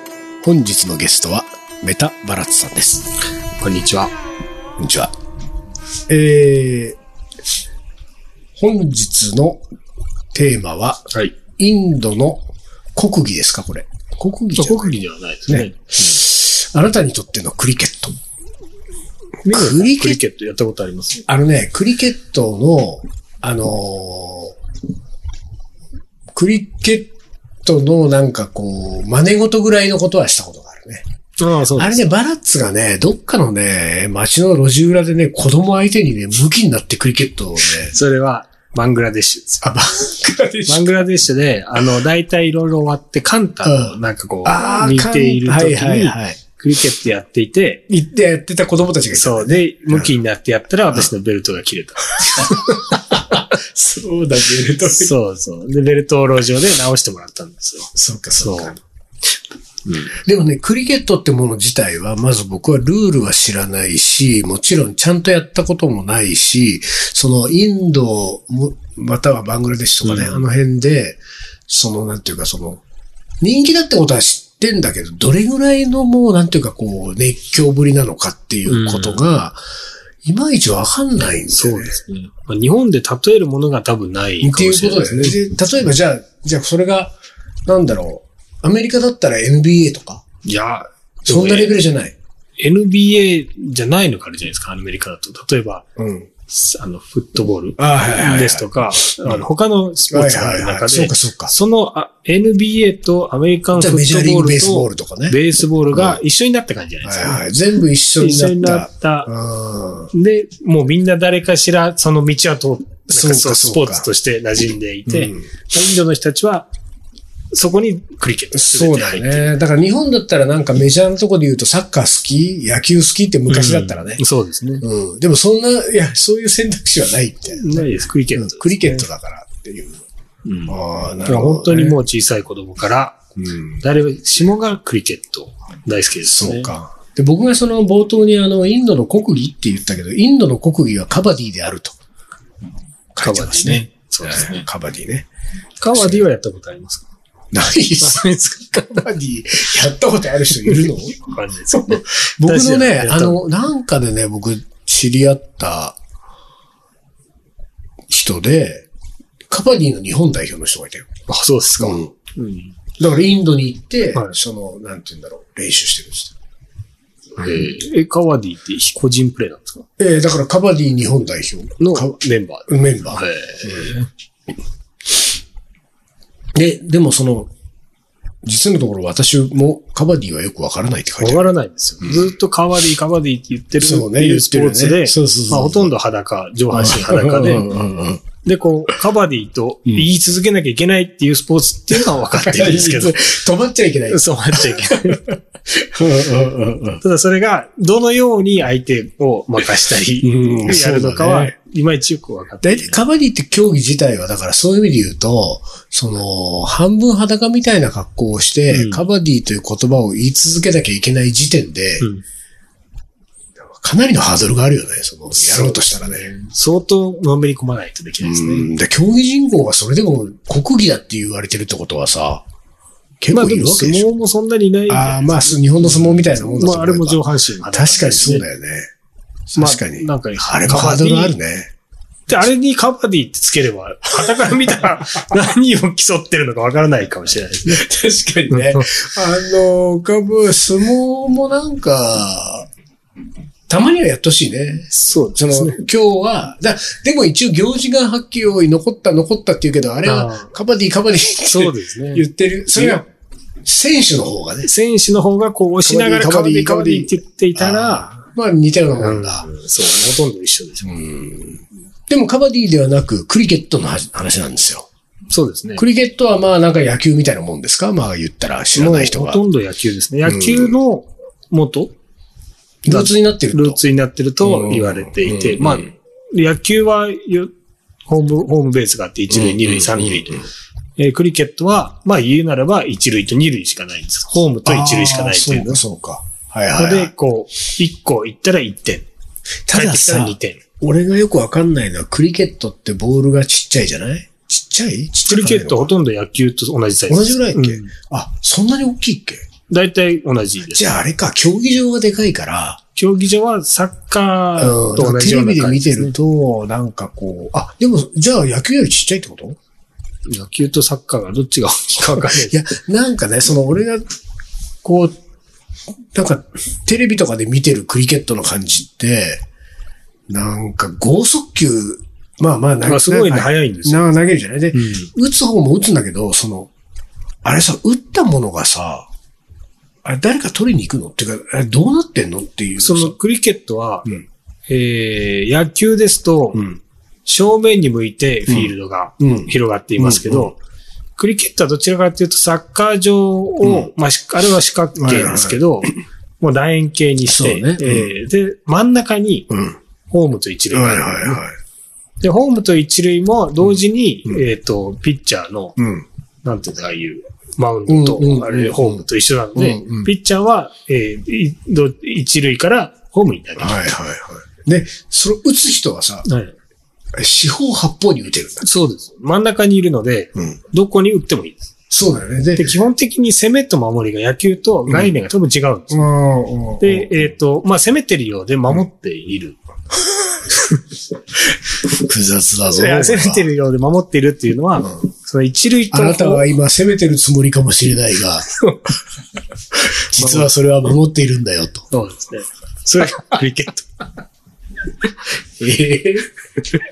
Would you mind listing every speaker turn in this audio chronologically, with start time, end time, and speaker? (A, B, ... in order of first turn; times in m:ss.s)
0:00.4-0:03.1 A
0:03.6-0:04.1 B
0:04.8-0:05.1 A
0:06.1-0:07.0 A
0:08.6-0:09.6 A
0:10.3-0:18.2 A
0:14.6-0:16.2 B
0:19.4-0:21.2 B
0:19.5-0:20.2 A
0:21.3-0:24.6 A
0:26.3-0:27.1 A
0:27.6-0:31.0 A
0:31.4-0:32.0 B
0:31.7-0:37.9 A
0:37.7-0:39.7 B
0:39.6-0:41.0 A
0:40.7-0:47.8 B
0:43.6-0:46.4 A
0:47.9-0:50.1 A
0:49.1-0:53.4 B
0:52.2-0:55.1 A
0:54.9-0:58.8 B
0:58.0-0:58.8 A
0:59.8-1:00.1 B
1:00.1-1:12.8 A
1:10.0-1:10.4 B
1:13.4-1:19.6 A
1:18.7-1:19.2 B
1:20.2-1:22.0 A
1:21.5-1:25.4 B
1:24.4-1:27.1 A
1:27.6-1:30.2 A
1:30.4-1:31.8 B
1:31.2-1:32.1 A
1:32.6-1:35.9 B
1:36.0-1:36.3 A
1:36.5-1:47.4 B
1:37.8-1:39.5 A
1:40.1-1:41.5 A
1:43.7-1:45.4 A
1:45.9-1:46.2 A
1:47.0-1:50.1 A
1:48.2-1:49.3 B
1:50.1-1:56.7 B
1:53.1-1:54.1 A
1:55.1-1:55.5 A
1:57.5-1:59.6 B
1:58.5-2:04.2 A
2:03.5-2:04.8 B
2:04.8-2:10.0 A
2:07.5-2:09.1 B
2:10.4-2:10.7 B
2:10.7-2:12.0 A
2:11.2-2:13.2 B
2:13.4-2:13.8 A
2:13.8-2:16.7 B
2:16.2-2:22.0 A
2:23.1-2:25.3 A
2:23.2-2:24.6 B
2:25.8-2:27.1 B
2:25.9-2:26.2 A
2:27.5-2:28.2 A
2:28.0-2:29.1 B
2:28.8-2:31.2 A
2:30.6-2:33.4 B
2:31.7-2:36.0 A
2:38.1-2:38.9 A
2:39.5-2:41.1 A
2:41.3-2:42.7 B
2:41.8-2:42.1 A
2:43.0-2:46.3 A
2:47.4-2:49.9 B
2:50.0-2:53.9 A
2:51.8-2:54.1 B
2:56.5-2:57.5 A
2:58.4-3:01.5 A
3:01.2-3:07.7 B
3:02.0-3:02.3 A
3:03.8-3:05.9 A
3:06.7-3:08.2 A
3:08.4-3:13.3 B
3:11.9-3:17.0 A
3:14.1-3:15.2 B
3:17.0-3:23.0 B
3:20.2-3:21.5 A
3:22.6-3:32.1 A
3:28.7-3:29.0 B
3:33.6-3:36.3 A
3:35.3-3:38.7 B
3:38.2-3:42.4 A
3:43.2-3:44.1 A
3:43.3-3:48.4 B
3:44.9-3:48.9 A
3:49.5-3:51.7 A
3:49.6-3:51.3 B
3:52.3-3:57.8 B
3:54.2-3:54.9 A
3:57.6-4:02.7 A
3:58.5-3:58.9 B
4:03.7-4:13.0 A
4:04.9-4:05.8 B
4:10.0-4:10.5 B
4:11.4-4:13.0 B
4:13.6-4:14.7 A
4:14.6-4:18.2 B
4:15.8-4:19.5 A
4:19.0-4:20.9 B
4:20.8-4:24.9 A
4:25.3-4:25.8 B
4:25.8-4:29.4 A
4:28.8-4:31.9 B
4:30.2-4:30.8 A
4:32.8-4:33.8 A
4:32.9-4:37.5 B
4:34.4-4:35.9 A
4:38.1-4:40.4 B
4:39.3-4:40.4 A
4:41.0-4:45.8 B
4:44.6-4:47.1 A
4:46.8-4:49.1 B
4:49.7-4:55.9 A
4:49.7-4:50.6 B
4:55.3-4:57.9 B
4:57.1-4:59.4 A
4:59.7-5:00.9 B
5:00.7-5:02.8 A
5:02.9-5:06.2 B
5:04.6-5:09.6 A
5:10.3-5:12.6 B
5:12.0-5:14.0 A
5:14.8-5:15.2 B
5:16.1-5:19.4 A
5:20.3-5:26.7 A
5:22.8-5:24.0 B
5:24.7-5:25.1 B
5:27.4-5:29.1 A
5:30.0-5:33.2 A
5:32.8-5:34.1 B
5:34.7-5:36.6 B
5:36.5-5:36.8 A
5:37.2-5:40.6 B
5:38.5-5:40.5 A
5:41.2-5:49.5 B
5:43.6-5:43.9 A
5:45.0-5:45.6 A
5:47.2-5:48.1 A
5:49.5-5:49.8 A
5:50.1-5:51.4 B
5:50.7-5:51.5 A
5:52.2-5:55.7 B
5:53.6-5:54.4 A
5:55.8-5:56.0 A
5:56.4-6:03.8 B
5:57.9-6:00.1 A
6:03.6-6:06.2 A
6:06.2-6:06.5 B
6:07.2-6:08.6 A
6:08.6-6:11.7 B
6:11.9-6:12.8 A
6:12.6-6:16.0 B
6:14.9-6:15.1 A
6:15.9-6:17.2 A
6:16.8-6:19.6 B
6:21.7-6:23.5 A
6:22.6-6:26.5 B
6:25.9-6:28.5 A
6:29.9-6:31.8 A
6:30.2-6:30.5 B
6:31.9-6:34.0 B
6:35.6-6:36.3 A